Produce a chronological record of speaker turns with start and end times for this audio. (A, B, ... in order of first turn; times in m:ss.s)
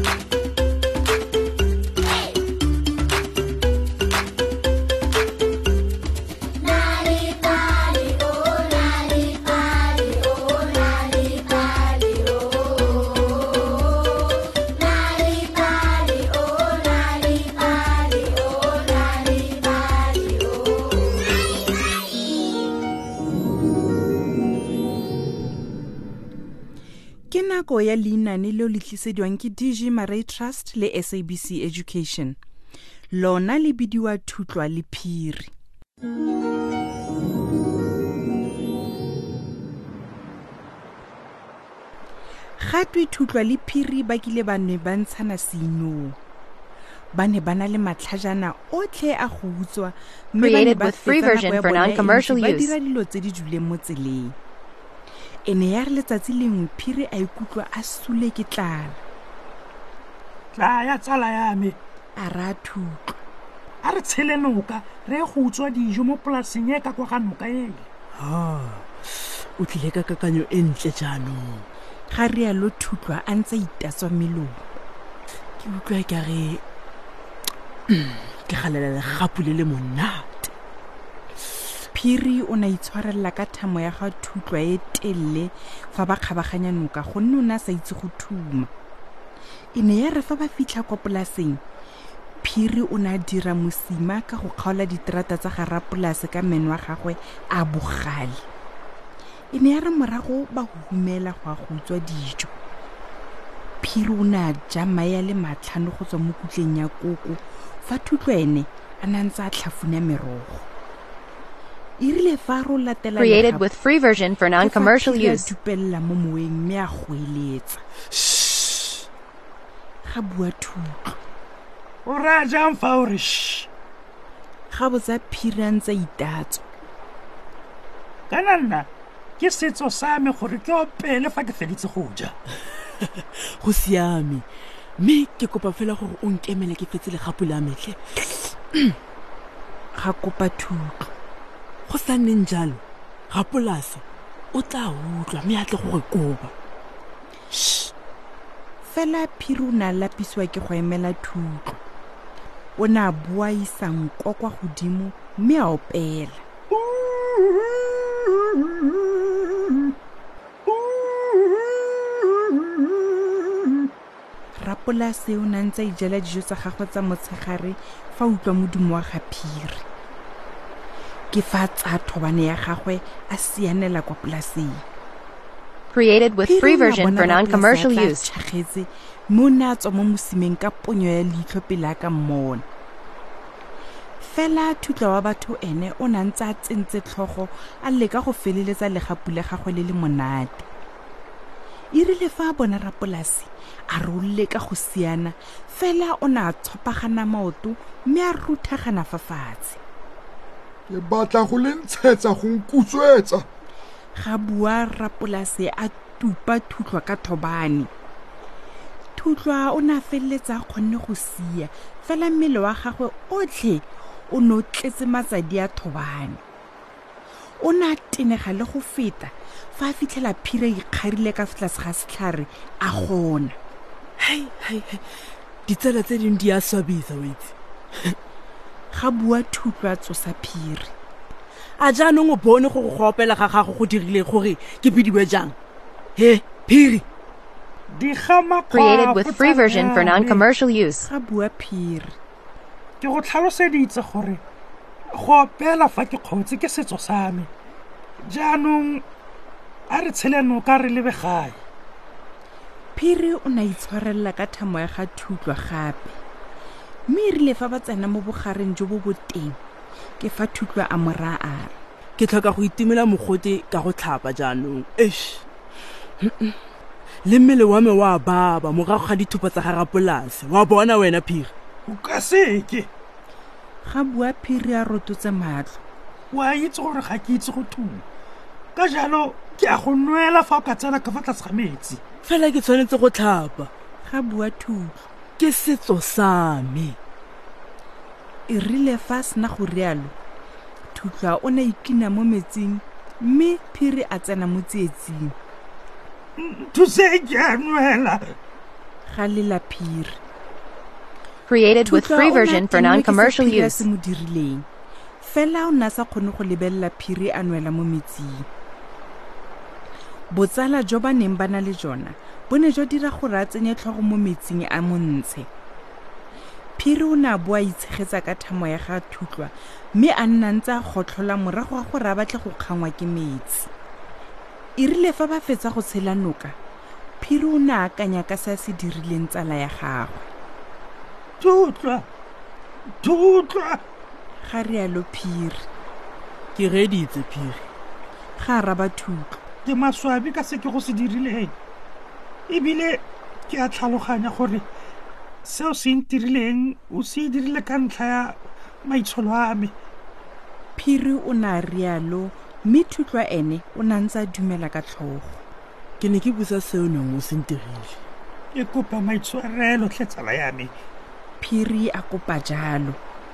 0:27.3-0:32.4 A
0:33.1-0:35.5 A
0:42.6-0:46.2 A
0:47.1-0:54.4 A
0:50.4-0:52.7 B
0:55.5-0:59.0 A
1:00.6-1:01.8 C
1:02.2-1:03.2 A
1:03.8-1:07.9 C
1:08.2-1:08.9 D
1:09.6-1:11.7 D
1:12.1-1:14.6 A
1:15.6-1:16.6 D
1:17.9-1:20.5 D
1:21.9-1:28.7 A
1:29.8-1:31.6 A
1:32.4-1:38.4 A
1:39.5-1:42.5 A
1:43.8-1:50.7 A
1:52.0-1:53.7 A
1:53.2-1:55.5 B
1:54.6-1:57.8 A
2:00.0-2:01.2 A
2:02.1-2:03.7 C
2:04.7-2:06.6 A
2:08.3-2:08.9 C
2:09.4-2:12.3 C
2:13.6-2:14.4 D
2:15.0-2:19.0 D
2:20.0-2:21.1 A
2:21.9-2:26.5 D
2:27.5-2:27.9 D
2:28.8-2:31.7 A
2:32.8-2:36.4 A
2:36.7-2:40.0 C
2:40.7-2:43.9 C
2:44.6-2:49.8 A
2:51.3-2:54.8 A
2:55.9-2:58.3 B
2:56.4-3:02.6 A
3:04.2-3:10.7 A
3:11.9-3:19.8 A
3:20.9-3:23.5 E
3:24.2-3:27.9 A
3:29.2-3:36.4 A
3:37.6-3:43.6 A
3:44.2-3:45.0 D
3:45.7-3:48.2 D
3:48.9-3:50.9 A
3:51.8-3:55.6 D
3:56.2-3:57.0 D
3:57.9-4:00.5 C
3:58.7-4:01.1 B
4:01.0-4:02.2 A
4:03.0-4:04.4 C
4:05.1-4:07.5 C
4:08.2-4:09.0 C
4:09.9-4:11.6 C
4:13.0-4:16.2 A
4:17.1-4:19.6 A
4:20.2-4:21.8 A
4:22.2-4:25.4 D
4:26.2-4:26.6 D
4:27.3-4:31.5 D
4:31.9-4:32.9 C
4:33.8-4:35.8 A
4:36.3-4:38.0 C
4:38.8-4:42.0 C
4:42.2-4:43.7 D
4:44.0-4:45.0 A
4:45.4-4:47.0 D
4:48.5-4:50.1 A
4:50.9-4:55.4 A
4:56.4-4:58.3 C
4:59.1-5:00.2 A
5:01.5-5:03.8 B
5:01.8-5:04.7 A
5:05.2-5:08.5 A
5:10.3-5:15.5 A
5:16.8-5:23.7 A
5:24.8-5:26.6 A
5:27.2-5:30.3 A
5:31.4-5:32.1 C
5:33.0-5:33.8 C
5:34.4-5:35.7 A
5:36.6-5:37.6 D
5:38.4-5:39.4 A
5:39.7-5:41.5 C
5:42.5-5:44.7 C
5:45.4-5:49.7 C
5:50.8-5:55.4 A
5:56.0-5:58.0 D
5:58.5-6:00.7 C
6:01.4-6:03.0 A